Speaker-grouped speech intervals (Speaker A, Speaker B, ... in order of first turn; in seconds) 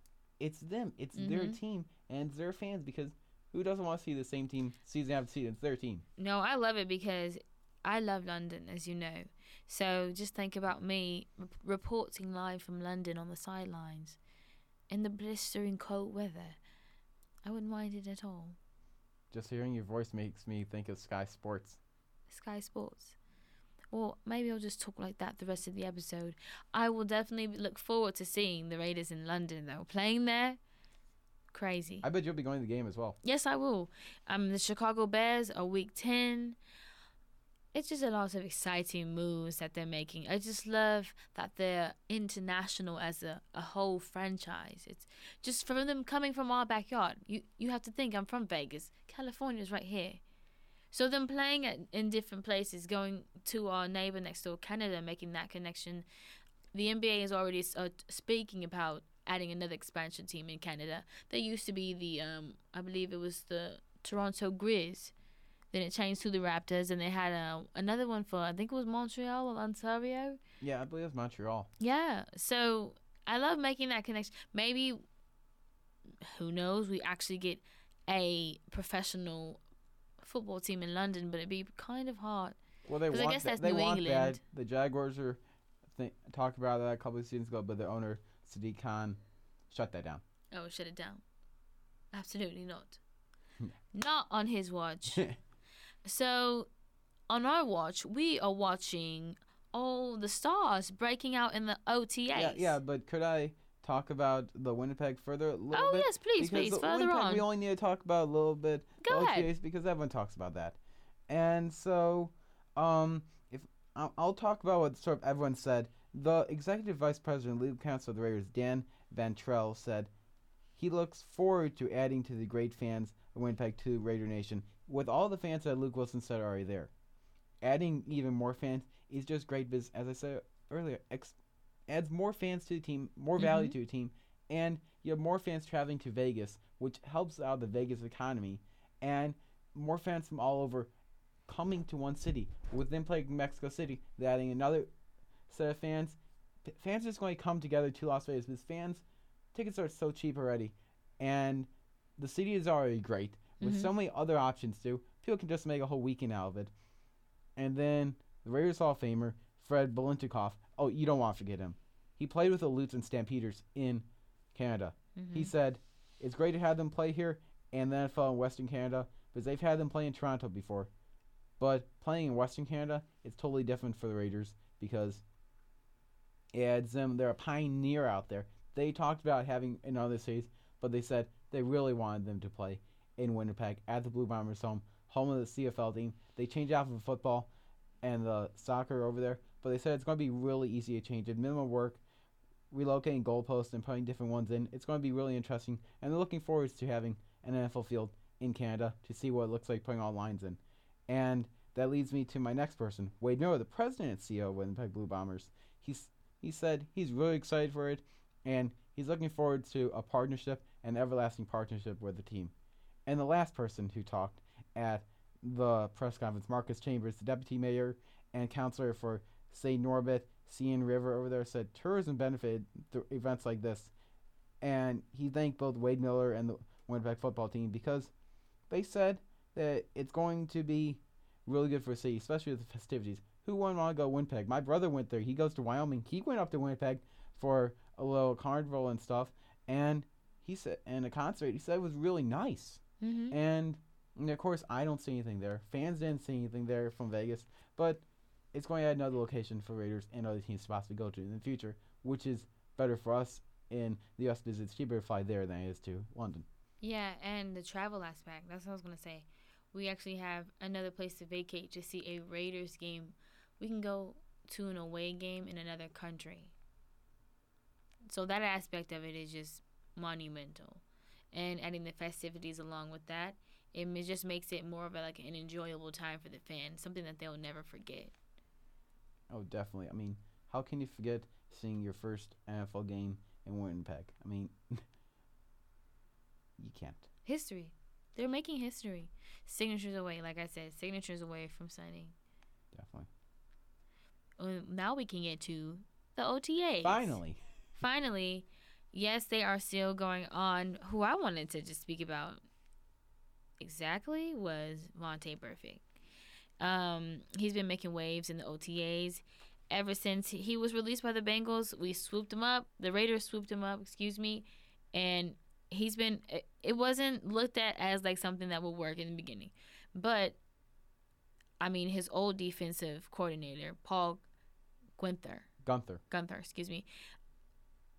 Speaker A: 0.4-6.0, 19.3-21.8, 32.0-33.2, 70.6-71.7, 82.8-90.2, 95.1-95.4, 102.3-120.1, 120.8-126.9, 127.6-131.4, 131.9-140.9, 141.4-144.9, 145.5-156.7, 157.6-170.9, 171.6-175.2, 176.5-187.5, 188.0-192.0, 192.7-212.5, 213.1-223.9, 224.6-228.1, 228.7-256.4, 279.3-284.8, 286.6-287.1, 292.7-293.1, 296.8-297.4, 325.6-326.0
Speaker B: 1.1-1.6, 6.2-14.2, 14.9-16.6, 17.4-18.6, 22.3-23.1, 23.9-30.6, 31.5-32.0, 33.2-36.6, 37.7-50.2, 50.9-56.0, 56.7-65.1, 65.7-70.4, 71.8-75.0, 76.2-79.6, 80.2-82.6, 83.1-84.4, 90.5-91.2, 92.1-93.0, 93.9-95.2, 96.0-96.7, 97.3-102.8, 105.7-107.4, 109.0-109.5, 133.4-133.7, 153.6-153.9, 165.2-165.5, 243.0-243.4, 256.8-266.5, 268.1-278.1, 287.2-292.1, 294.4-297.2, 297.8-302.4, 303.6-305.8, 306.6-320.4, 321.6-324.2, 325.0-325.5, 326.1-326.9